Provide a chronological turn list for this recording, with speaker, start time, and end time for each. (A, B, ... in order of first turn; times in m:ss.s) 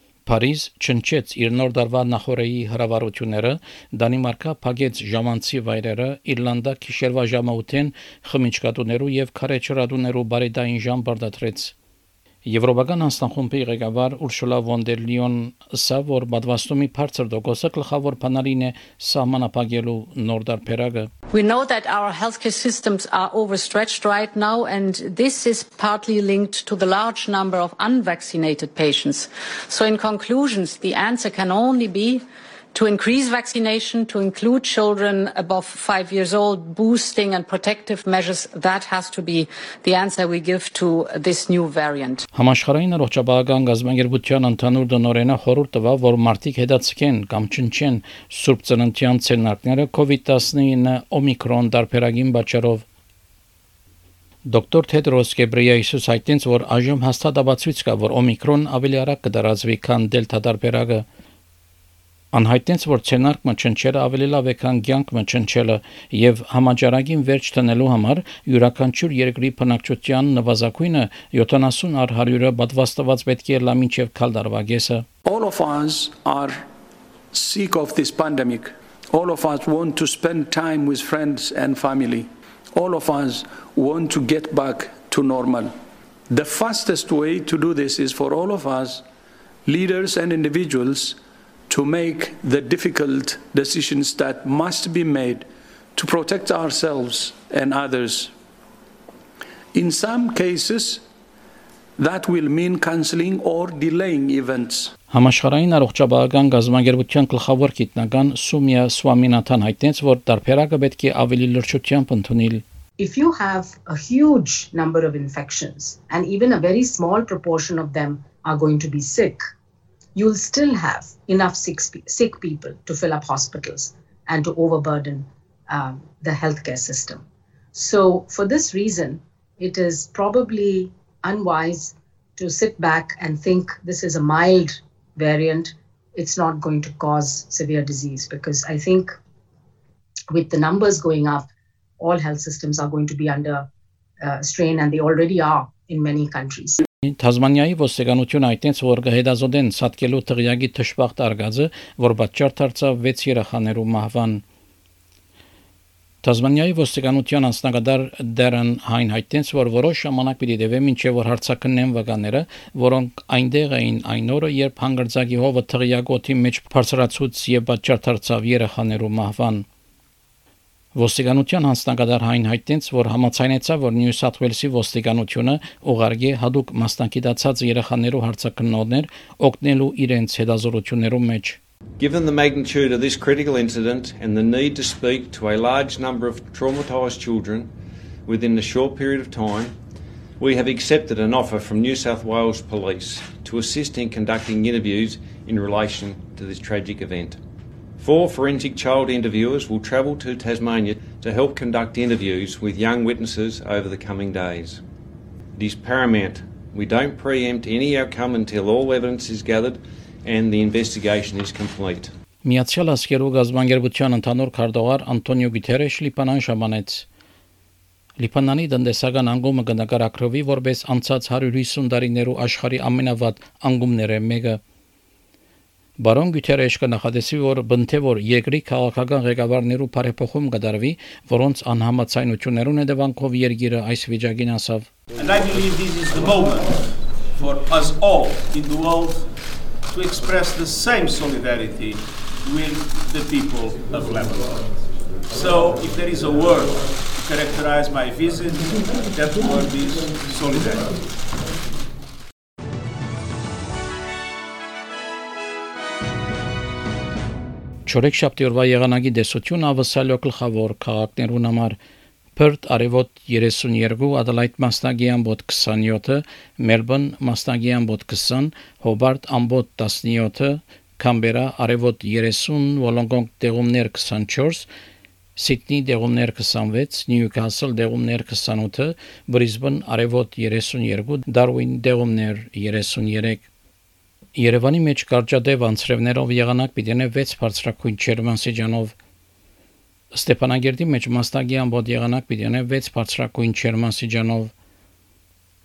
0:00.2-0:11.7 A
0:12.4-0:21.1 A
0:21.3-0:42.2 B
0:42.3-0:52.8 A
0:54.5-1:01.0 A
1:02.3-1:15.0 A
1:15.2-1:16.7 C
1:17.3-1:25.7 C
1:26.3-1:29.0 C
1:29.6-1:31.2 C
1:31.7-1:38.3 C
1:39.7-1:41.0 C
1:42.0-1:44.9 C
1:45.1-1:52.6 A
1:53.0-1:59.4 D
2:00.1-2:07.2 D
2:07.7-2:19.1 D
2:20.3-2:21.4 D
2:22.0-2:23.6 D
2:24.2-2:26.8 D
2:27.0-2:34.4 A
2:36.2-2:49.6 A
2:50.9-3:01.6 A
3:02.0-3:07.7 E
3:08.3-3:09.7 E
3:10.4-3:17.4 E
3:18.0-3:24.8 E
3:25.6-3:32.1 E
3:32.4-3:37.0 A
3:38.2-3:44.6 A
3:46.0-3:54.9 A
3:55.2-3:59.3 F
3:59.9-4:04.7 F
4:05.3-4:10.9 F
4:17.9-4:21.8 A
4:22.4-4:34.7 A
4:35.4-4:43.5 A
4:44.4-4:48.9 A
4:50.1-4:54.5 A